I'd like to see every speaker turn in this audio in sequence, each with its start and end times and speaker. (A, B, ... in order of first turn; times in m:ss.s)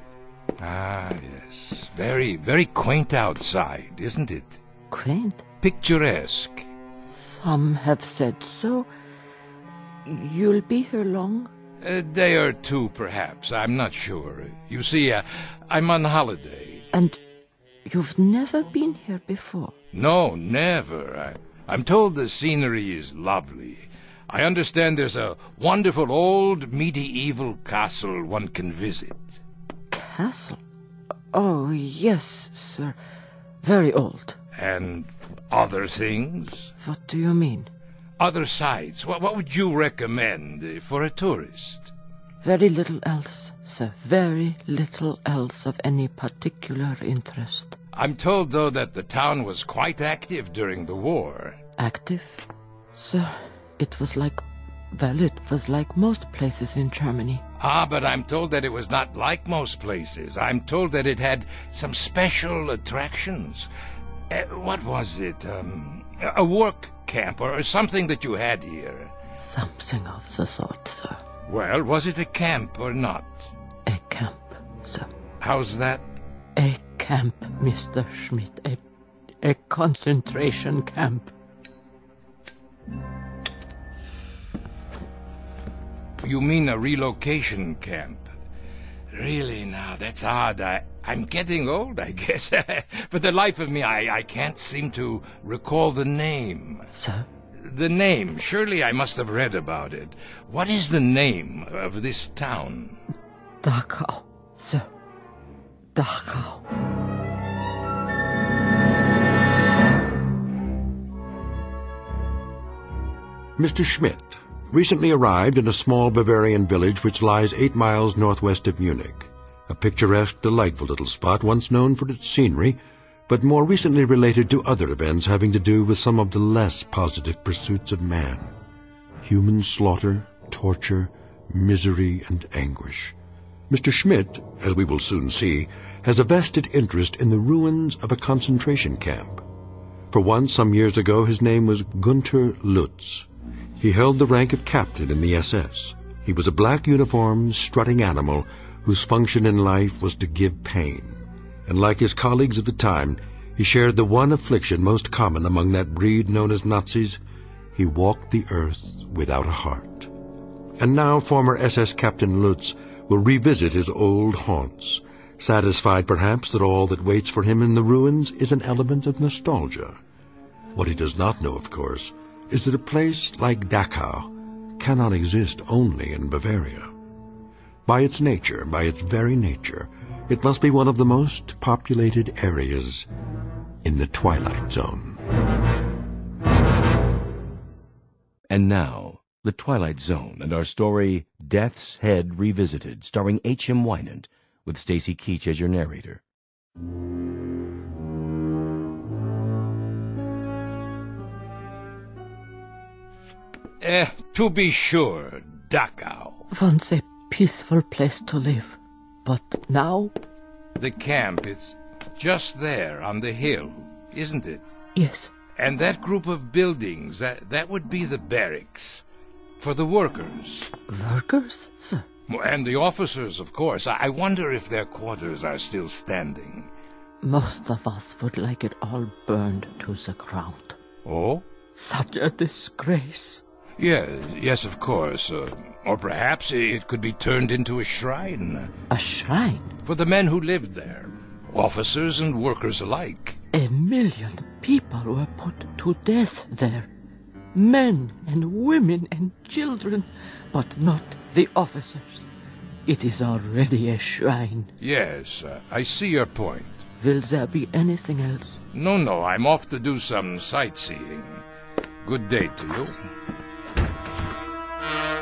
0:00.6-0:04.6 A
0:04.9-0:05.4 B
0:05.6-0:06.7 A
0:07.0-0:08.9 B
0:10.0-0:11.5 B
0:11.8-0:16.9 A
0:16.9-0:17.2 B
0:17.9-0:19.8 B
0:19.9-0:29.4 A
0:29.9-0:30.6 B
0:31.3-0:33.0 B
0:33.6-0:34.4 B
0:34.6-0:36.7 A
0:36.8-0:37.7 B
0:38.2-0:41.9 A
0:42.4-0:47.8 B
0:47.9-0:51.6 A
0:51.8-0:57.4 B
0:57.6-1:03.7 A
1:04.3-1:09.1 A
1:09.4-1:11.2 B
1:11.5-1:13.5 A
1:13.9-1:15.1 B
1:15.4-1:16.0 A
1:16.6-1:18.8 B
1:19.4-1:21.3 B
1:26.2-1:28.3 A
1:29.1-1:36.9 A
1:37.0-1:37.3 B
1:37.6-1:43.0 A
1:43.6-1:44.9 B
1:46.0-1:46.6 B
1:53.6-2:08.5 C
2:09.2-2:13.2 C
2:13.7-2:19.4 C
2:20.1-2:23.3 C
2:23.8-2:37.2 C
2:37.8-2:40.1 C
2:40.8-2:50.0 C
2:50.7-2:56.9 C
2:57.9-3:03.1 C
3:03.8-3:05.2 C
3:08.5-3:16.2 D
3:23.8-3:26.4 A
3:26.5-3:30.1 B
3:30.8-3:34.7 A
3:35.0-3:35.3 B
3:35.6-3:39.0 A
3:39.6-3:40.7 A
3:40.9-3:42.1 B
3:42.3-3:46.7 A
3:47.2-3:50.8 B
3:51.0-3:51.4 A
3:51.8-3:53.4 B
3:53.8-3:58.7 A
3:58.9-3:59.7 B
3:59.8-4:03.4 A
4:03.5-4:06.9 B
4:07.5-4:12.3 B
4:12.9-4:14.7 B
4:14.8-4:16.8 A
4:17.0-4:18.6 B
4:18.7-4:21.4 A
4:22.0-4:22.9 A